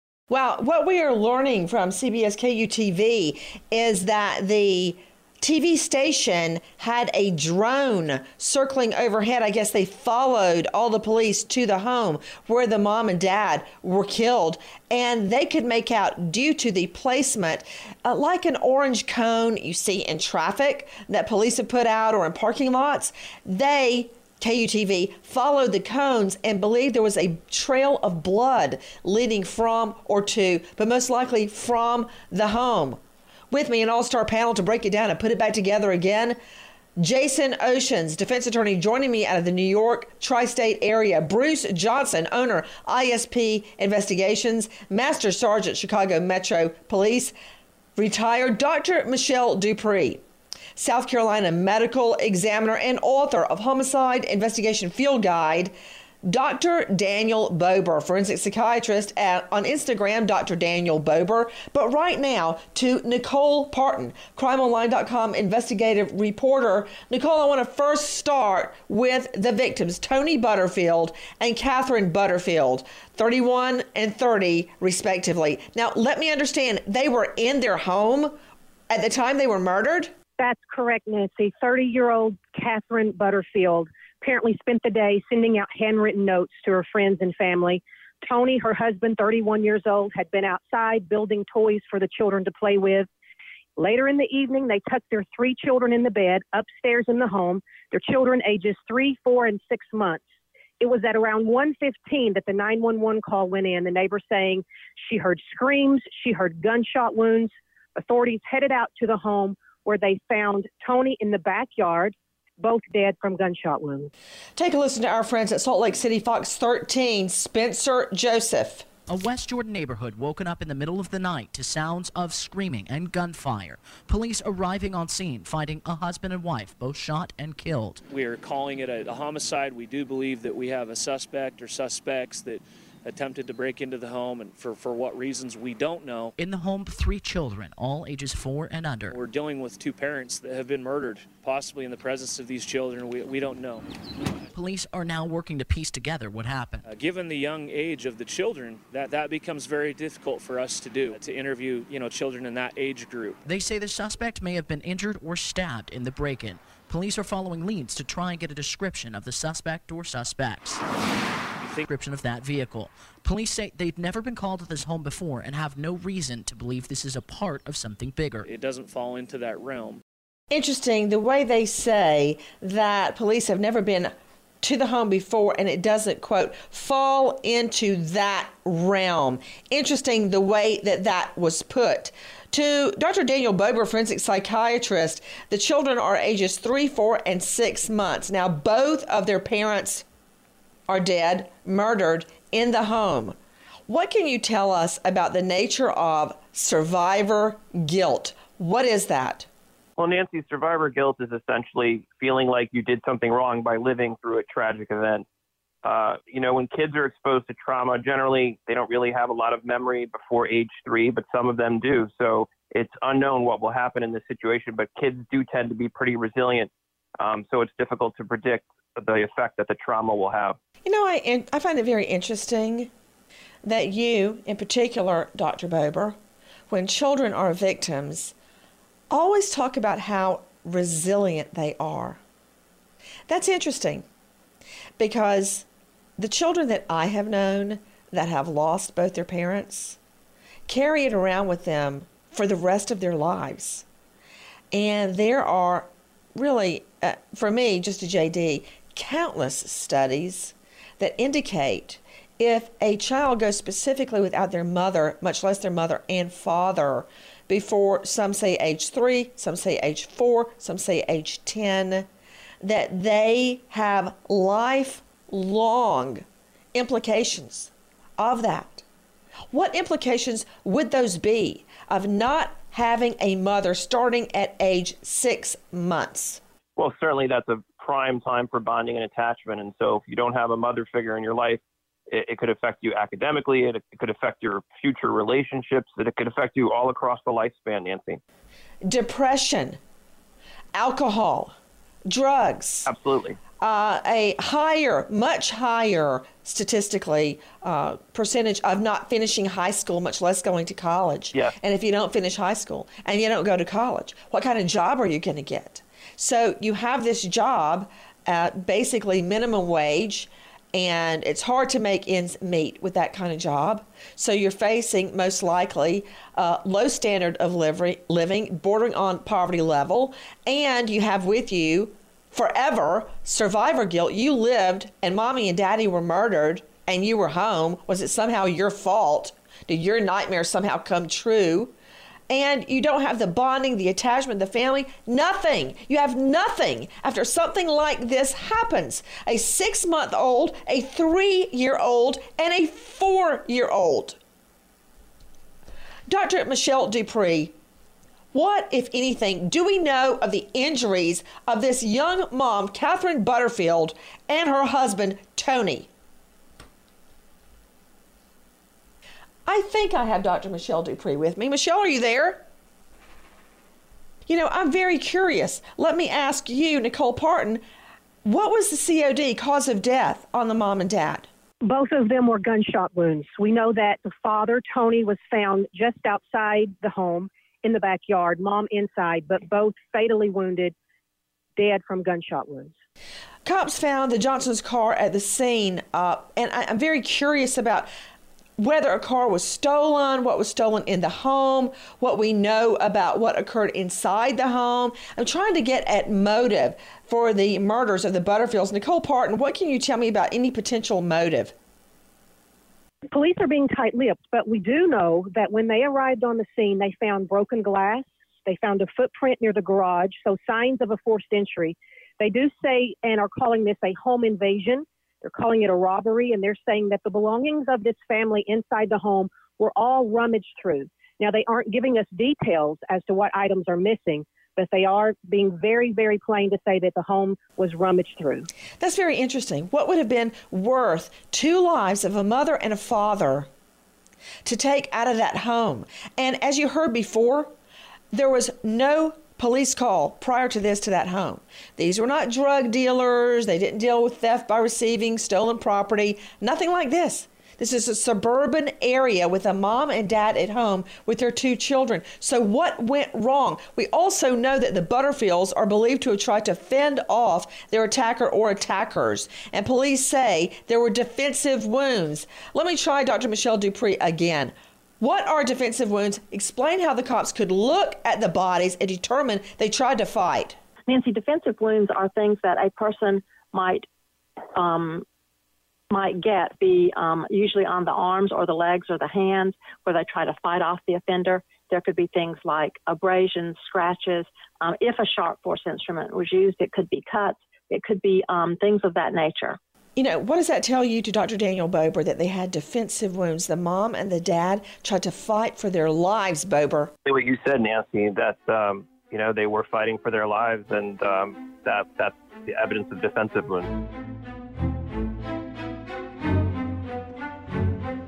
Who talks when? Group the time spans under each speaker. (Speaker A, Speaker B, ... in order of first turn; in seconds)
Speaker A: 0.3-33.0, 33.5-36.4, 37.0-47.3, 48.0-50.2, 50.8-55.7, 56.2-78.4, 78.9-80.1, 114.6-118.8, 170.5-190.1, 190.9-193.4, 193.9-199.5, 220.8-222.9, 223.7-226.2, 226.7-228.3, 229.1-232.2, 233.3-234.1, 235.0-235.7, 236.2-240.0, 240.7-243.8, 244.7-262.1, 262.6-268.8, 269.5-276.4, 288.9-289.8, 290.7-291.6, 292.1-292.9, 293.6-331.7, 332.3-344.2, 346.1-347.5, 348.3-355.9, 359.5-362.4, 364.3-367.6, 368.2-371.3, 383.4-387.9, 388.6-401.5, 428.8-433.5, 434.4-437.5, 438.1-470.6, 490.0-496.9
Speaker B: 80.4-93.1, 93.8-100.2, 100.8-114.1, 371.6-380.7, 381.6-382.8, 403.1-428.5
Speaker C: 119.1-128.0, 136.4-139.2, 144.5-146.8, 153.4-160.8, 161.8-168.5
Speaker D: 128.1-136.3, 139.1-143.9, 146.8-153.4, 161.6-161.8, 168.4-170.0
Speaker E: 200.0-205.3, 205.8-220.6, 276.8-288.2, 292.9-293.4, 497.1-503.7
Speaker F: 470.9-473.9, 474.5-475.1, 475.9-489.6